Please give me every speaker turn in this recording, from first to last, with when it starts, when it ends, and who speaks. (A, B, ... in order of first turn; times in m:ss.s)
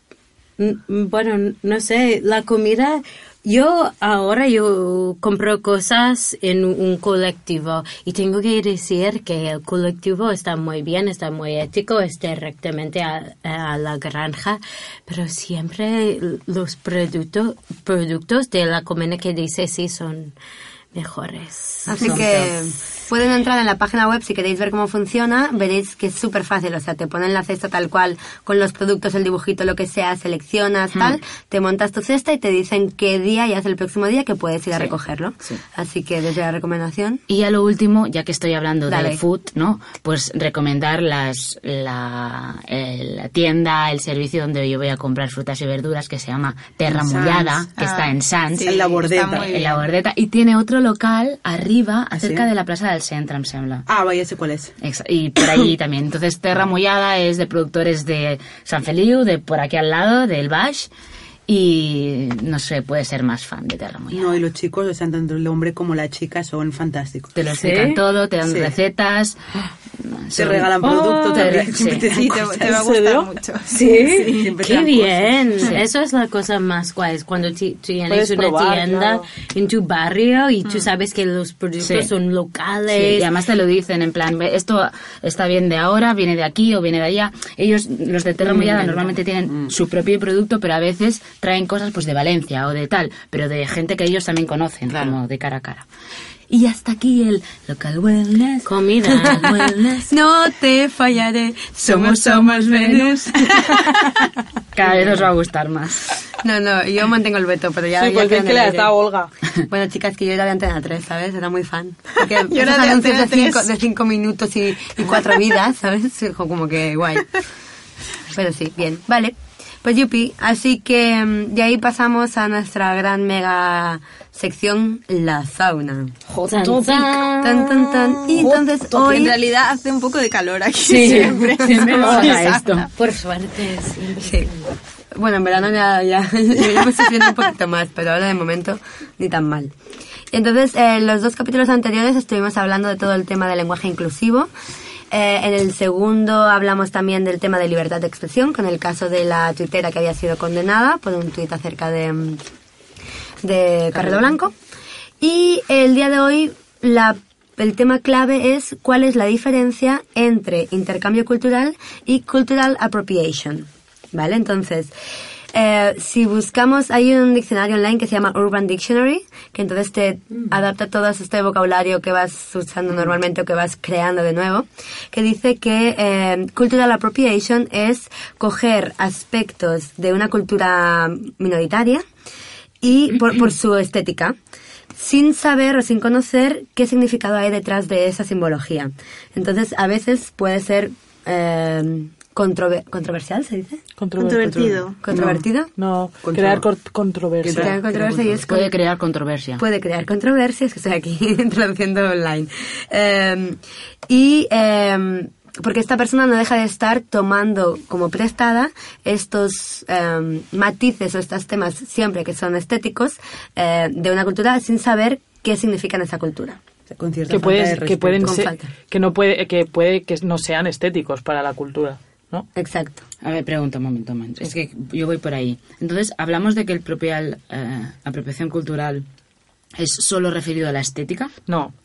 0:00.6-0:20.3 A
0:20.9-0:22.1 A
0:21.9-0:22.5 B
0:21.9-0:37.2 C
0:37.3-0:48.7 B
0:38.9-0:39.2 C
0:46.8-0:47.6 D
0:47.8-0:49.8 E
0:48.6-0:49.5 D
0:49.3-0:53.9 B
0:52.1-0:52.5 D
0:53.9-0:54.7 D
0:54.8-1:00.9 B
1:01.5-1:04.4 B
1:04.1-1:07.3 D
1:07.4-1:09.4 B
1:07.5-1:08.0 A
1:08.4-1:08.7 D
1:10.0-1:12.1 B
1:10.3-1:12.8 D
1:10.8-1:11.6 F
1:12.0-1:14.5 E
1:12.6-1:13.3 F
1:13.7-1:23.3 A
1:14.3-1:15.5 D
1:18.1-1:19.3 F
1:21.8-1:22.1 B
1:22.9-1:35.9 B
1:29.4-1:29.7 D
1:34.9-1:35.2 D
1:36.5-1:40.1 B
1:38.6-1:39.7 A
1:40.1-1:43.7 C
1:41.8-1:43.6 B
1:44.7-1:46.1 B
1:46.4-1:48.9 C
1:48.0-1:49.3 F
1:49.7-1:57.3 C
1:52.2-1:53.7 E
1:58.3-2:06.1 C
2:06.3-2:07.2 B
2:06.5-2:08.3 A
2:07.4-2:09.3 C
2:08.4-2:12.9 E
2:10.8-2:12.9 B
2:12.0-2:12.3 A
2:12.9-2:14.7 A
2:15.1-2:19.7 C
2:20.3-2:24.5 C
2:25.1-2:32.4 C
2:33.4-2:34.5 C
2:35.2-2:44.9 C
2:45.5-3:02.0 C
3:02.8-3:04.4 C
3:04.9-3:13.8 C
3:14.0-3:14.8 F
3:14.2-3:15.0 E
3:14.5-3:15.4 D
3:15.0-3:15.7 C
3:15.8-3:17.8 F
3:16.2-3:16.7 D
3:17.4-3:18.4 D
3:17.5-3:18.7 C
3:18.5-3:19.6 B
3:19.6-3:36.6 C
3:36.9-3:38.5 D
3:37.3-3:42.5 F
3:38.2-3:38.7 C
3:42.6-3:43.0 C
3:43.2-3:49.0 B
3:49.8-3:51.3 B
3:51.5-3:51.7 F